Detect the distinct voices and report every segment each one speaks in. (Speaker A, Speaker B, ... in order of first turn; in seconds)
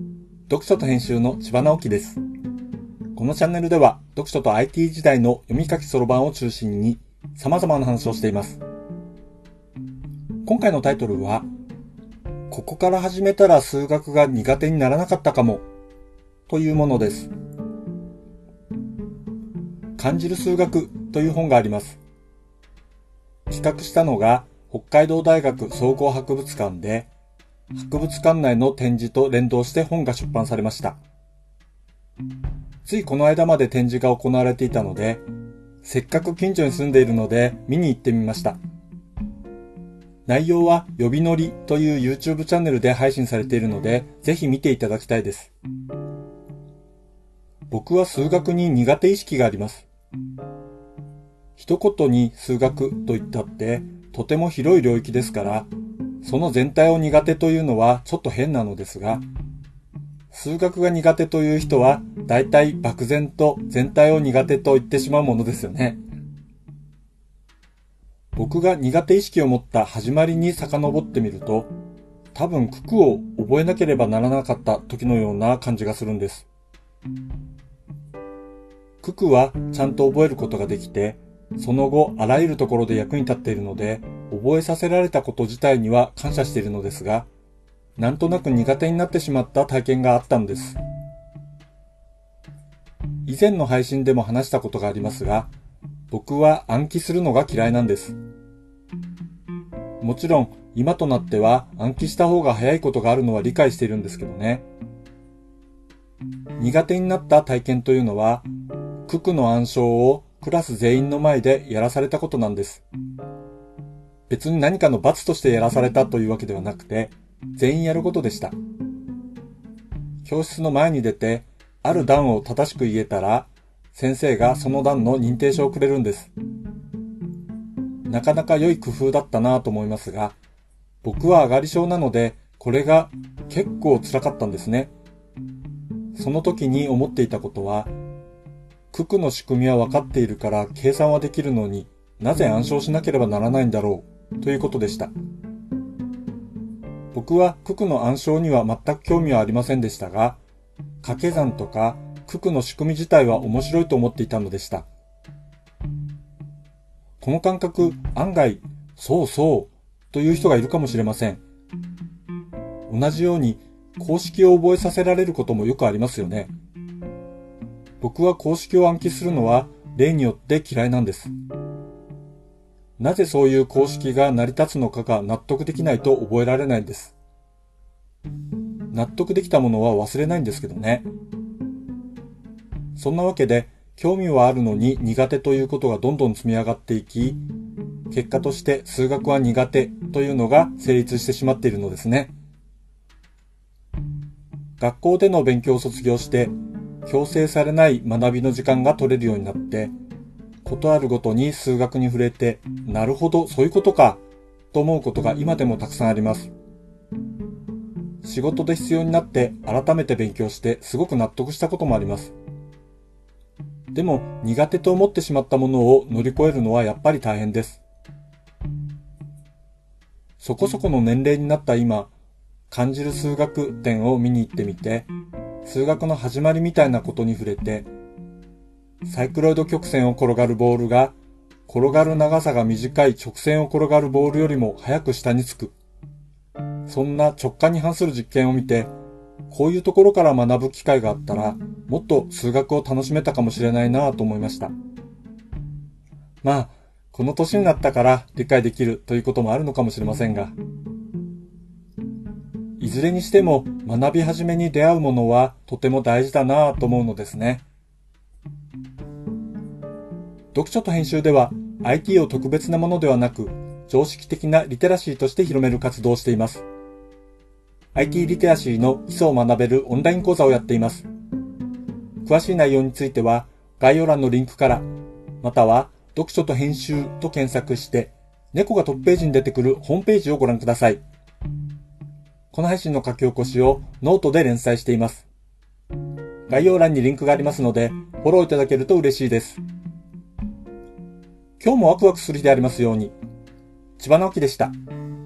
Speaker A: 0.5-2.2, 3.1-8.6, 10.4-11.5, 12.5-15.6, 16.5-17.3, 20.0-22.0, 23.5-27.1, 27.7-31.0, 32.8-35.2, 35.8-38.6, 40.3-45.5, 47.7-49.9, 51.6-55.7, 56.2-59.2, 60.3-66.0, 68.3-71.7, 72.3-76.5, 79.0-87.3, 88.0-90.8, 93.3-95.5, 96.1-98.2, 100.0-104.7, 106.6-108.5, 109.1-112.8, 114.3-118.5, 120.2-126.3, 128.1-130.4, 131.0-134.9, 136.2-137.9, 138.9-145.1, 147.1-150.4, 151.0-154.9, 157.2-161.4, 162.9-166.5, 168.0-171.3, 173.0-177.2, 178.9-181.1, 183.0-187.4, 188.1-192.3, 194.8-196.5, 197.1-199.9, 200.6-204.2, 204.7-206.5, 208.2-212.3, 213.9-217.8, 220.4-222.1, 222.7-225.1, 225.6-227.9, 229.0-231.1, 231.7-235.8, 236.9-238.9, 239.5-244.7, 246.4-250.6, 252.8-257.6, 260.5-266.6, 267.9-271.1, 272.2-274.9, 275.4-281.0, 282.5-285.3, 286.5-289.6, 291.6-293.1, 294.0-294.7